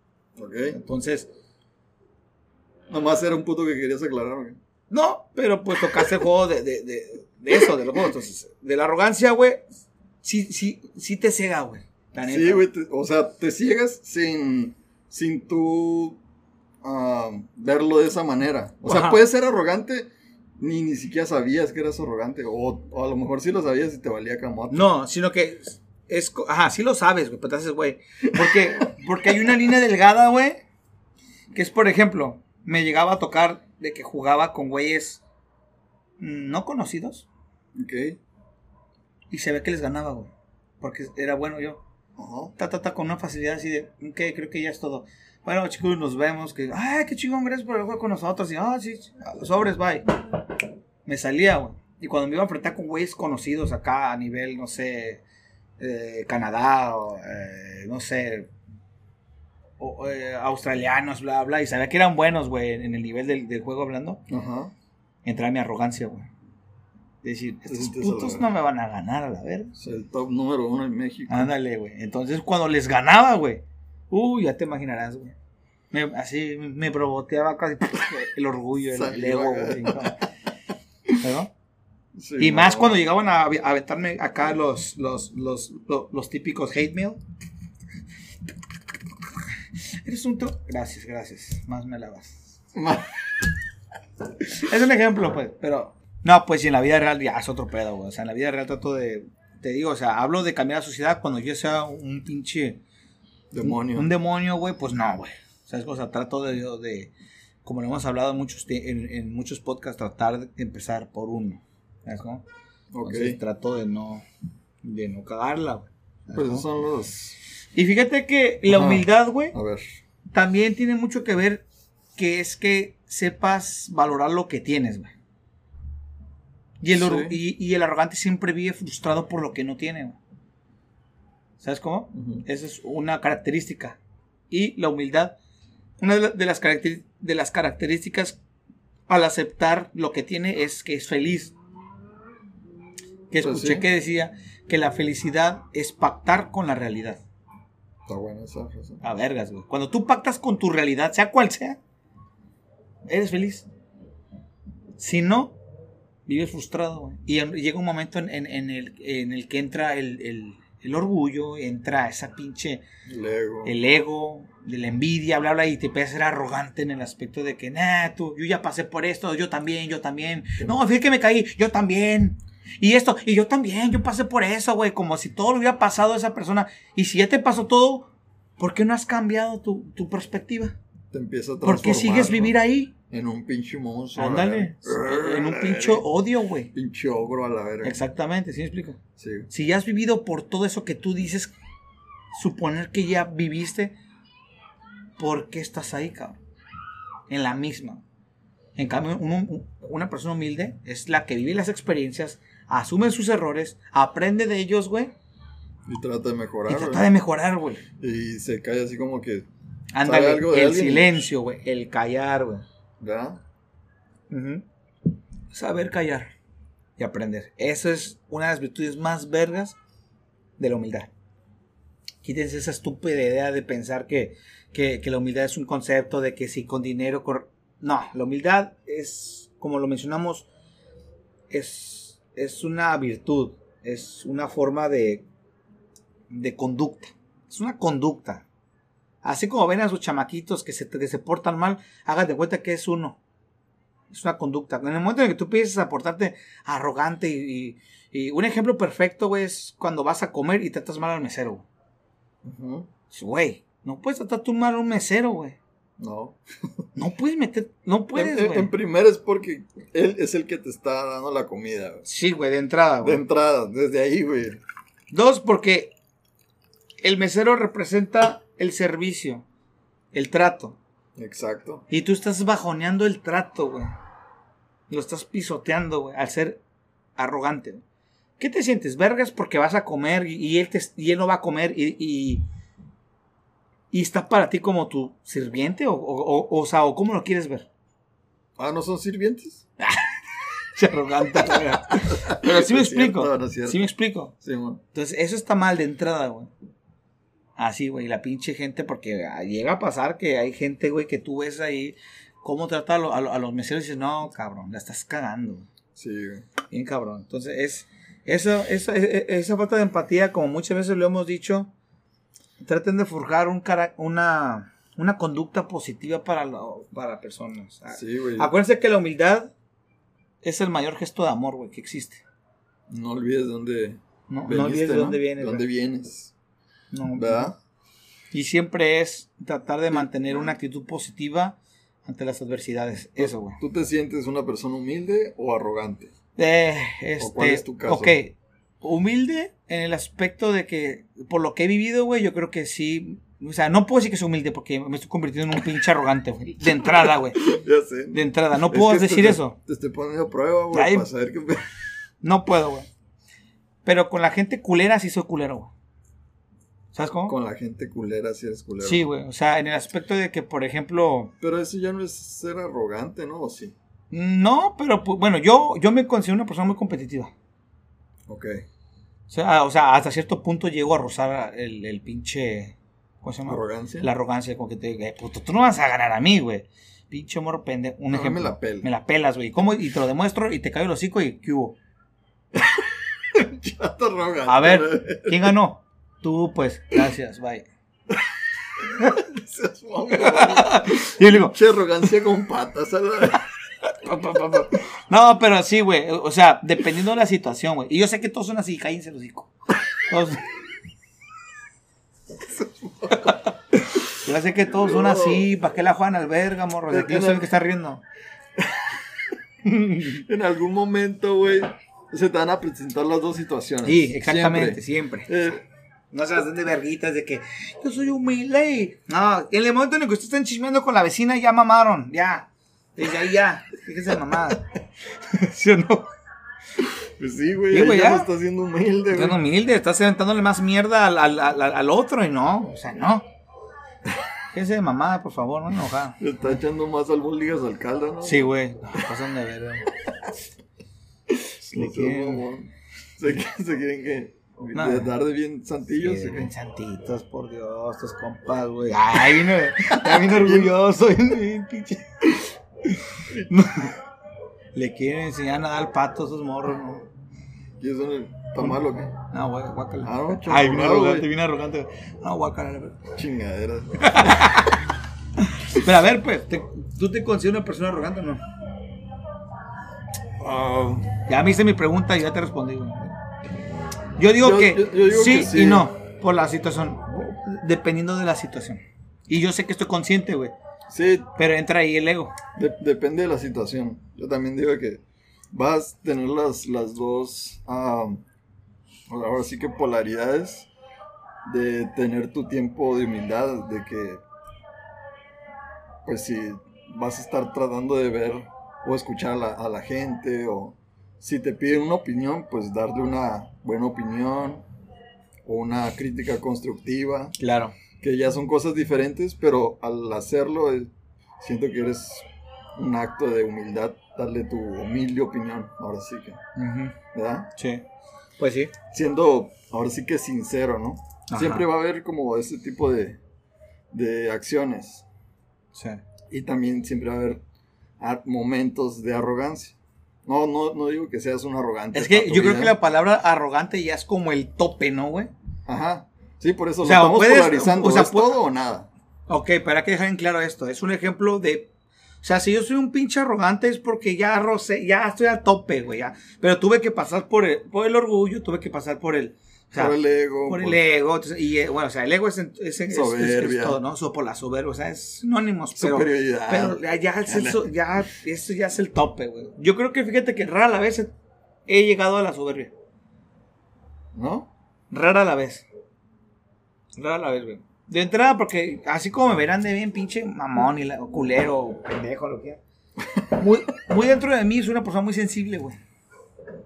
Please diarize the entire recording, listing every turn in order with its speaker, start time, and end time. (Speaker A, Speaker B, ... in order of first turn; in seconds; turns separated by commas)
Speaker A: 0.4-0.8, Speaker B: 0.7-1.3, Speaker A: 2.9-4.6, Speaker B: 4.9-9.6, Speaker B: 10.2-12.6, Speaker A: 12.2-16.2, Speaker A: 16.8-24.9, Speaker B: 18.9-19.2, Speaker B: 24.7-30.6, Speaker A: 28.4-28.9, Speaker B: 31.5-35.2, Speaker B: 36.2-37.3, Speaker A: 37.8-38.2, Speaker B: 39.3-41.8, Speaker A: 42.2-42.5, Speaker B: 42.6-50.1, Speaker B: 51.1-55.2, Speaker B: 55.8-58.5, Speaker B: 59.8-64.2, Speaker A: 64.3-64.7, Speaker B: 65.2-66.3, Speaker B: 67.2-69.7, Speaker A: 67.7-68.5, Speaker A: 69.8-71.5, Speaker B: 71.3-75.3, Speaker B: 75.9-80.2, Speaker A: 78.9-80.2, Speaker B: 81.1-81.5, Speaker A: 82.1-83.0, Speaker B: 82.4-87.2, Speaker B: 90.0-92.6, Speaker A: 92.8-93.1, Speaker B: 94.5-102.8, Speaker A: 103.5-104.1, Speaker B: 103.6-107.1, Speaker B: 107.6-112.5, Speaker A: 112.9-113.4, Speaker B: 113.0-114.2, Speaker B: 114.8-116.7, Speaker A: 116.3-117.4, Speaker B: 117.8-119.5, Speaker A: 118.7-119.9, Speaker B: 120.3-121.6, Speaker B: 122.2-125.1, Speaker B: 126.8-130.2, Speaker A: 126.9-127.4, Speaker B: 131.6-134.0, Speaker A: 132.1-132.4, Speaker B: 134.5-135.4, Speaker B: 136.0-138.4, Speaker B: 139.1-141.6, Speaker B: 143.3-147.2, Speaker A: 143.4-143.9, Speaker A: 148.1-149.0, Speaker B: 149.0-151.8, Speaker B: 153.1-153.7, Speaker B: 155.0-155.6, Speaker B: 156.3-162.8, Speaker A: 163.1-163.7, Speaker B: 163.6-180.8, Speaker A: 181.1-182.6, Speaker B: 181.6-182.9, Speaker A: 183.1-186.1, Speaker B: 184.2-186.7, Speaker A: 186.7-188.0, Speaker B: 187.8-189.0, Speaker A: 189.2-189.5, Speaker B: 189.5-191.5, Speaker B: 192.3-193.9, Speaker B: 195.2-196.4, Speaker B: 197.3-198.0, Speaker B: 198.8-205.1, Speaker A: 205.9-207.1, Speaker B: 206.7-207.8, Speaker A: 208.0-209.5, Speaker B: 209.9-212.6, Speaker A: 210.0-211.3, Speaker A: 213.0-213.4, Speaker B: 214.3-214.6, Speaker B: 215.5-216.3, Speaker B: 217.0-219.8, Speaker B: 220.6-221.1, Speaker B: 222.2-230.5, Speaker B: 231.5-235.2, Speaker B: 236.3-238.4, Speaker B: 239.2-243.2, Speaker B: 244.1-251.7, Speaker A: 252.4-252.9, Speaker B: 253.1-255.6, Speaker A: 256.0-256.4, Speaker B: 256.9-258.7, Speaker A: 258.1-262.0, Speaker B: 262.1-263.2, Speaker A: 263.0-264.6, Speaker B: 265.1-265.9, Speaker B: 267.0-269.4, Speaker B: 270.1-270.8, Speaker A: 271.2-271.9, Speaker B: 271.9-273.9, Speaker B: 274.9-276.6, Speaker B: 277.2-277.8, Speaker B: 278.4-282.4, Speaker B: 283.9-287.7, Speaker A: 288.6-289.6, Speaker B: 289.8-290.1, Speaker B: 290.7-294.3, Speaker A: 292.0-293.8, Speaker A: 294.4-294.8, Speaker B: 294.9-296.5, Speaker B: 297.6-305.7, Speaker A: 306.0-306.5, Speaker B: 306.7-311.7, Speaker B: 312.6-319.5, Speaker A: 317.9-318.5, Speaker B: 320.4-322.2, Speaker A: 322.9-326.3, Speaker B: 324.3-325.6, Speaker B: 326.9-327.6, Speaker A: 327.1-327.5, Speaker B: 328.3-333.6, Speaker A: 333.2-336.1, Speaker B: 336.4-347.5, Speaker A: 337.2-338.1, Speaker A: 347.0-351.6, Speaker B: 348.1-349.6, Speaker B: 350.7-351.1, Speaker B: 352.2-352.9, Speaker B: 353.9-355.7, Speaker B: 356.9-357.4, Speaker A: 357.3-359.1, Speaker B: 358.8-361.3, Speaker A: 361.4-363.8, Speaker B: 364.1-367.3, Speaker A: 368.3-368.6, Speaker B: 369.3-381.8, Speaker A: 373.5-374.1, Speaker A: 378.1-378.9, Speaker A: 382.5-385.6, Speaker B: 384.5-387.7, Speaker A: 388.8-393.4, Speaker B: 390.1-391.6, Speaker B: 393.8-399.5, Speaker B: 400.0-400.4, Speaker A: 402.4-403.4, Speaker B: 404.1-408.0, Speaker A: 404.8-405.5, Speaker A: 406.9-407.5, Speaker A: 408.6-408.9, Speaker B: 409.6-410.2, Speaker A: 410.1-415.6, Speaker B: 413.9-415.3, Speaker B: 416.1-424.7, Speaker B: 425.2-426.1, Speaker A: 426.8-429.4, Speaker B: 427.7-428.3, Speaker B: 429.1-433.2, Speaker B: 434.5-436.2, Speaker A: 436.2-438.5, Speaker B: 438.2-439.9, Speaker A: 441.6-446.5, Speaker B: 441.6-442.5, Speaker B: 444.8-445.1, Speaker B: 446.0-454.0, Speaker A: 449.9-450.7, Speaker A: 453.3-453.5, Speaker B: 454.8-457.1, Speaker A: 457.8-459.1, Speaker B: 459.3-463.1, Speaker A: 460.0-461.3, Speaker A: 463.1-464.5, Speaker B: 464.0-464.8, Speaker B: 465.5-468.4, Speaker A: 470.4-471.2, Speaker B: 471.3-473.2, Speaker B: 474.2-480.5, Speaker A: 474.4-475.9, Speaker A: 480.9-481.3, Speaker B: 481.4-482.4, Speaker A: 482.6-488.2, Speaker A: 489.1-490.7, Speaker A: 491.5-494.2, Speaker A: 496.1-504.6, Speaker A: 505.4-507.4, Speaker B: 507.4-507.8, Speaker A: 508.0-516.4, Speaker B: 516.6-517.0, Speaker A: 517.1-517.5, Speaker B: 517.6-517.8, Speaker B: 518.4-518.7, Speaker A: 518.9-523.2, Speaker B: 521.3-521.7, Speaker A: 523.9-525.0, Speaker B: 525.8-526.0, Speaker A: 526.3-527.4, Speaker A: 528.0-532.8, Speaker B: 531.9-535.3, Speaker A: 535.7-538.9, Speaker B: 536.8-538.4, Speaker B: 539.3-541.7, Speaker B: 542.2-561.1, Speaker A: 549.8-550.8, Speaker A: 552.9-553.8, Speaker A: 555.8-557.7, Speaker B: 561.7-562.7, Speaker A: 564.1-564.5, Speaker B: 564.9-565.7, Speaker B: 567.0-572.6, Speaker B: 573.3-575.8